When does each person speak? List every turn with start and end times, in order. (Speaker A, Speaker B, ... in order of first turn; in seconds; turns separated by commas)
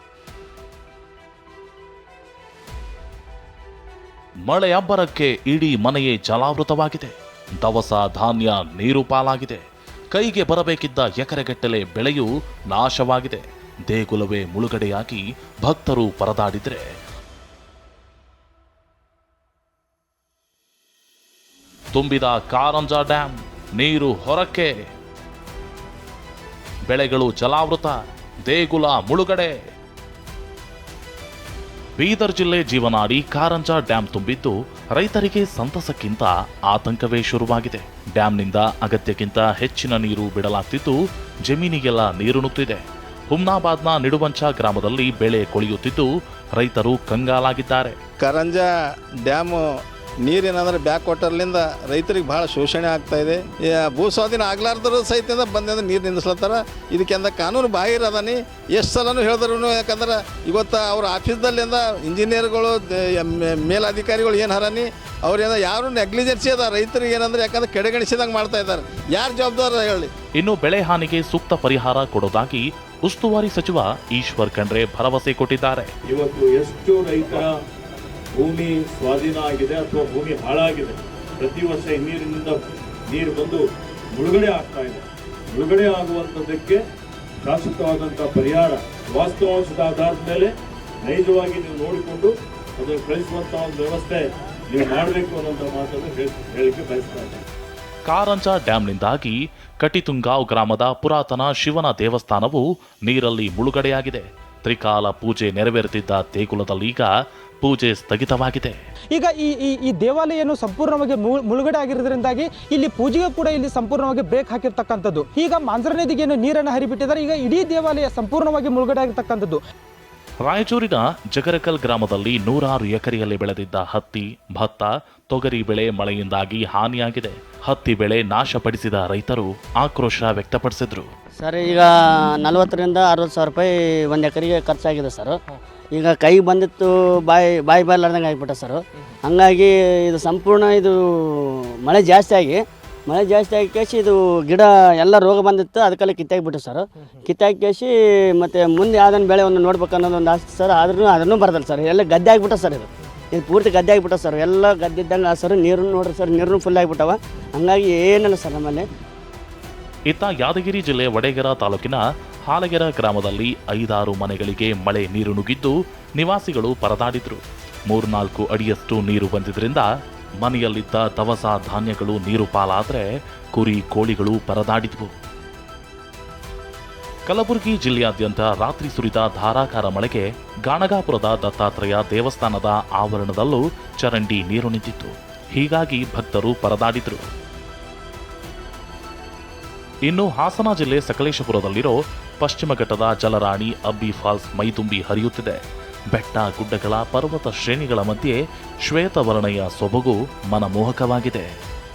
Speaker A: 4.5-9.6, Speaker A: 10.1-16.8, Speaker A: 21.9-24.7, Speaker A: 26.9-29.6, Speaker A: 32.0-48.0, Speaker B: 48.2-48.6, Speaker B: 49.3-49.6, Speaker B: 50.2-70.1, Speaker A: 70.4-75.9, Speaker C: 76.1-77.4, Speaker C: 78.4-82.5, Speaker C: 83.1-83.6, Speaker C: 84.2-85.0, Speaker C: 85.5-86.8, Speaker C: 87.4-90.5, Speaker C: 91.0-94.1, Speaker C: 94.7-97.2, Speaker A: 98.1-107.1, Speaker A: 107.6-108.7, Speaker D: 109.1-119.6, Speaker A: 120.5-131.1, Speaker E: 131.4-135.4, Speaker E: 135.9-158.8, Speaker A: 160.1-169.9, Speaker A: 170.4-175.1, Speaker A: 177.3-187.3, Speaker A: 190.1-195.6, Speaker A: 196.1-201.5